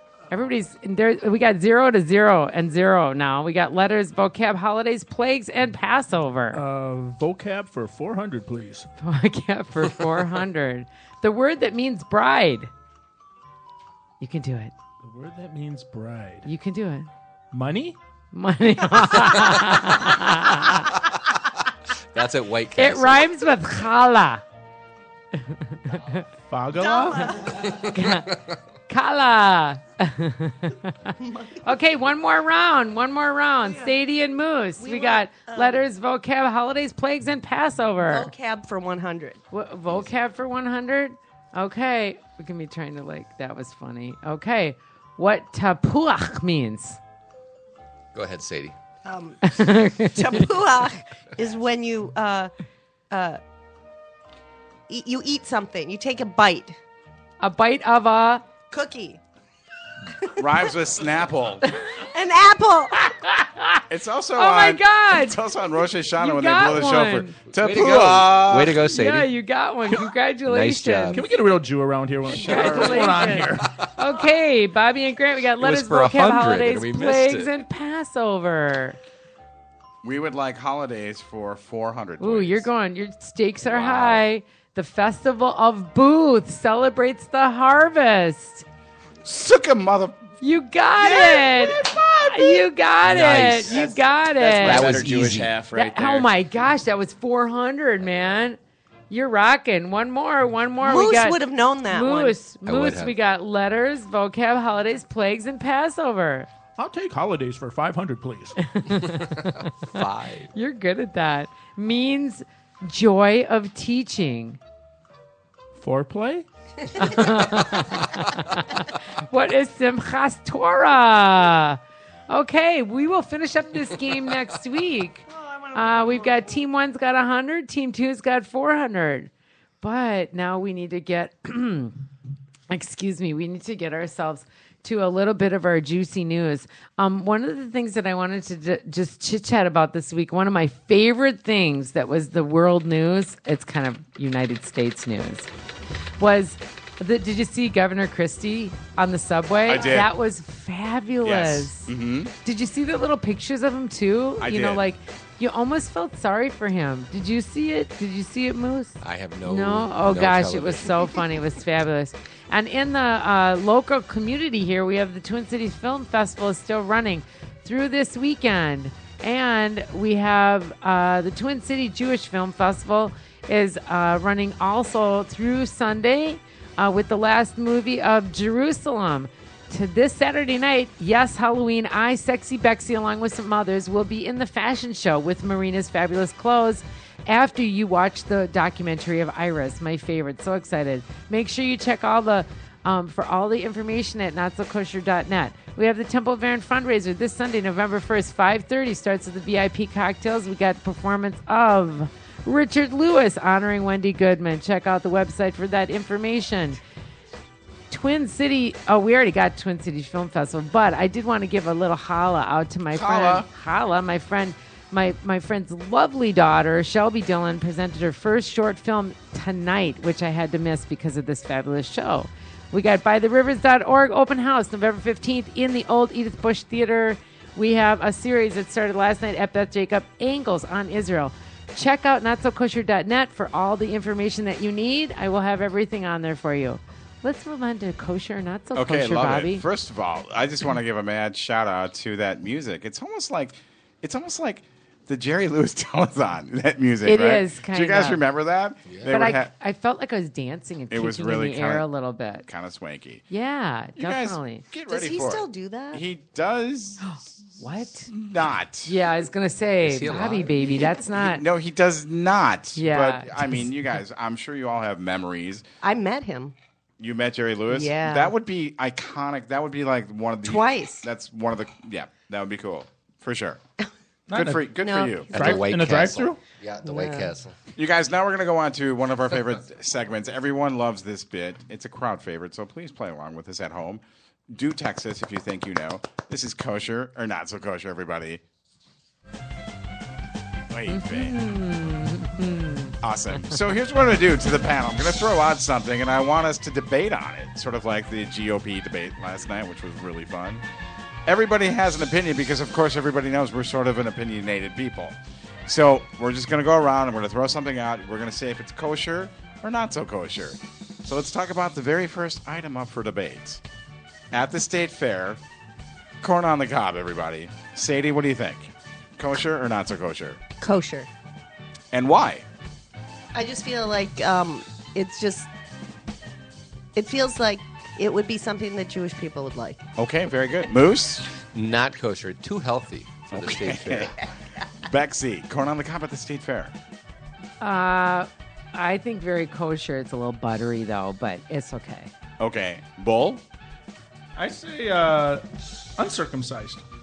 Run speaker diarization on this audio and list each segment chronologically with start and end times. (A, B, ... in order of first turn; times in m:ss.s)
0:00.3-0:06.6 A
0:06.5-0:08.9 B
0:09.0-0:12.7 A
0:14.2-0:14.7 A
0:15.0-0:16.4 B
0:16.4-0:17.1 A
0:17.5-0:18.0 B
0:18.3-0:20.9 A
0:22.1-0:23.3 C
0:22.8-0:24.4 A
0:25.4-0:26.2 A
0:26.5-0:27.4 B
0:26.7-0:27.8 D
0:27.8-0:28.3 A
0:28.9-0:38.3 A
0:31.2-0:31.6 D
0:33.6-0:33.9 D
0:34.8-0:35.8 D
0:38.0-0:39.4 D
0:39.5-0:47.0 A
0:48.1-0:48.8 C
0:49.0-0:49.5 D
0:49.4-0:50.5 A
0:50.0-0:52.5 D
0:53.1-0:53.4 D
0:54.9-0:56.8 D
0:57.4-0:58.4 A
0:58.7-0:59.2 D
1:00.2-1:00.7 D
1:00.4-1:01.6 E
1:02.0-1:03.1 D
1:03.2-1:03.8 A
1:03.9-1:08.8 E
1:04.4-1:05.4 A
1:06.2-1:07.4 A
1:07.5-1:09.3 C
1:08.8-1:11.2 A
1:10.4-1:11.2 C
1:11.1-1:13.7 B
1:12.3-1:13.2 E
1:12.3-1:19.0 A
1:15.6-1:17.5 C
1:20.0-1:22.7 E
1:22.2-1:28.6 A
1:23.6-1:24.2 C
1:29.2-1:30.2 E
1:30.4-1:35.0 A
1:33.0-1:33.8 C
1:33.7-1:36.3 F
1:34.6-1:35.5 C
1:35.7-1:38.6 A
1:39.1-1:46.5 A
1:40.8-1:42.4 D
1:42.6-1:43.1 C
1:46.8-1:48.6 B
1:48.6-1:54.6 A
1:49.0-1:50.5 C
1:55.8-1:56.4 B
1:56.9-2:12.0 A
2:05.3-2:06.5 D
2:12.7-2:25.5 A
2:26.2-2:31.9 A
2:29.7-2:30.1 E
2:31.2-2:32.3 E
2:32.4-3:26.8 A
2:34.4-2:34.8 E
2:39.0-2:41.0 C
3:27.9-3:59.6 A
3:32.9-3:33.5 E
3:58.7-4:09.5 E
4:07.0-4:08.2 A
4:09.1-4:12.5 A
4:10.9-4:11.9 E
4:12.4-4:13.2 E
4:13.3-4:14.6 A
4:14.0-4:19.0 E
4:14.9-4:16.0 D
4:17.0-4:18.1 A
4:18.8-4:21.4 A
4:19.8-4:20.6 C
4:20.8-4:25.6 E
4:22.8-4:23.7 A
4:25.8-4:26.5 D
4:27.0-4:33.6 E
4:27.7-4:28.3 D
4:30.4-4:31.1 D
4:34.3-4:34.7 B
4:34.3-4:35.3 E
4:34.7-4:35.6 D
4:35.3-4:36.4 B
4:35.3-4:37.6 C
4:36.8-4:37.3 D
4:37.7-4:48.4 E
4:50.7-4:51.4 E
4:50.9-4:53.0 A
4:53.0-5:00.6 E
5:01.2-5:13.6 E
5:14.3-5:15.4 E
5:16.2-5:20.4 E
5:20.6-5:21.1 D
5:21.9-5:22.4 E
5:23.3-5:25.5 D
5:26.9-5:29.8 D
5:30.0-5:31.3 E
5:31.5-5:34.1 C
5:33.3-5:34.1 E
5:34.8-5:36.7 E
5:37.6-5:42.1 A
5:42.4-5:43.4 E
5:44.4-5:45.4 B
5:45.9-5:46.8 B